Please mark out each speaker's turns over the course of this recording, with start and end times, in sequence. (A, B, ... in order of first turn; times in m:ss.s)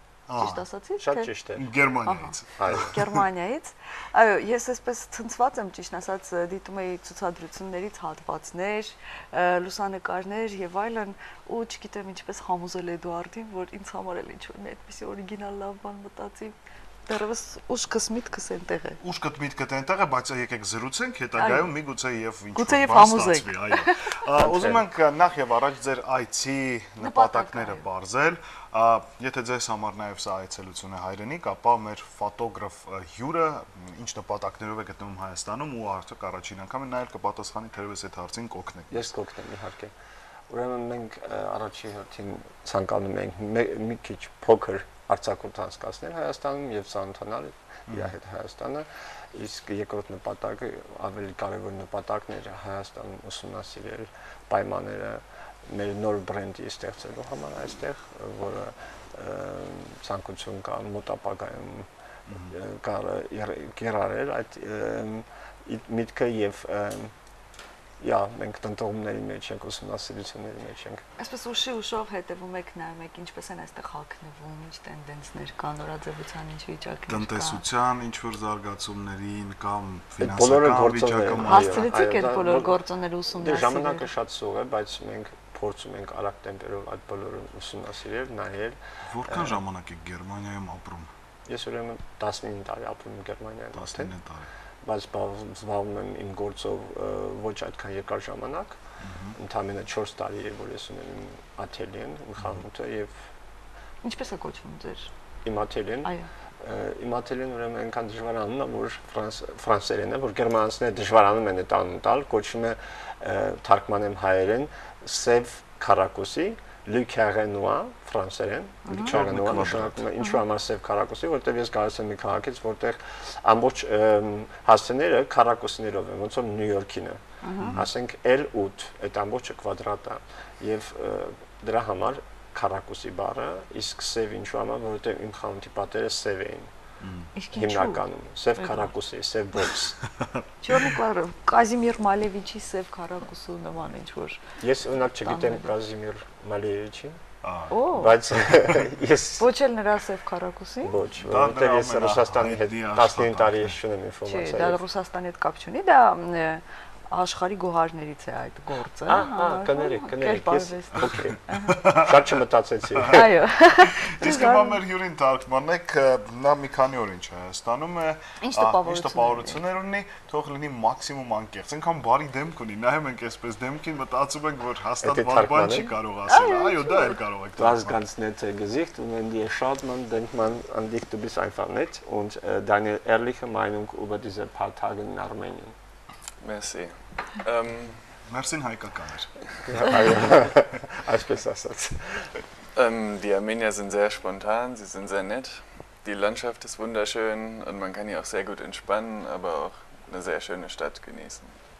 0:00.3-0:00.6 A
0:00.4-0:01.3 B
0:01.0-0:01.6 C
0:01.5-0:03.2 A
0:02.0-0:19.0 B
0:02.6-0:02.9 C
0:19.0-0:39.1 A
0:21.3-0:21.7 B
0:22.5-0:24.2 B
0:24.4-0:24.8 C
0:27.0-0:27.8 B
0:38.9-0:39.9 C
0:40.5-1:01.9 C
0:47.9-0:48.1 A
1:02.3-1:02.6 A
1:02.5-1:07.1 C
1:08.0-1:11.0 C
1:11.2-1:17.6 B
1:17.1-1:21.9 A
1:20.2-1:22.7 C
1:21.4-1:24.1 B
1:23.3-1:29.6 C
1:29.1-1:31.1 A
1:31.5-1:34.1 C
1:33.7-1:34.5 A
1:34.8-1:38.8 C
1:39.0-1:39.4 A
1:39.4-1:43.3 C
1:44.0-1:45.1 B
1:45.4-2:16.7 C
1:46.0-1:46.3 B
1:58.8-1:59.7 B
1:59.0-2:00.1 A
2:07.4-2:07.8 B
2:07.6-2:07.9 A
2:17.0-2:17.4 A
2:17.3-2:18.0 B
2:17.5-2:20.0 C
2:18.6-2:18.9 B
2:20.6-2:24.4 B
2:24.6-2:27.2 C
2:25.2-2:25.7 B
2:27.4-2:27.9 A
2:27.7-2:28.2 B
2:27.9-2:29.5 C
2:29.4-2:30.9 B
2:30.8-2:34.8 C
2:31.0-2:33.8 A
2:34.2-2:41.9 B
2:39.1-2:43.3 C
2:41.6-2:42.4 A
2:42.9-2:43.2 A
2:43.1-2:44.8 B
2:43.8-2:58.0 A
2:48.4-2:49.6 B
2:55.0-2:55.9 C
2:56.3-2:57.2 B
2:57.6-3:05.7 C
3:06.4-3:08.1 D
3:08.2-3:09.3 A
3:09.6-3:12.4 C
3:12.7-3:21.5 D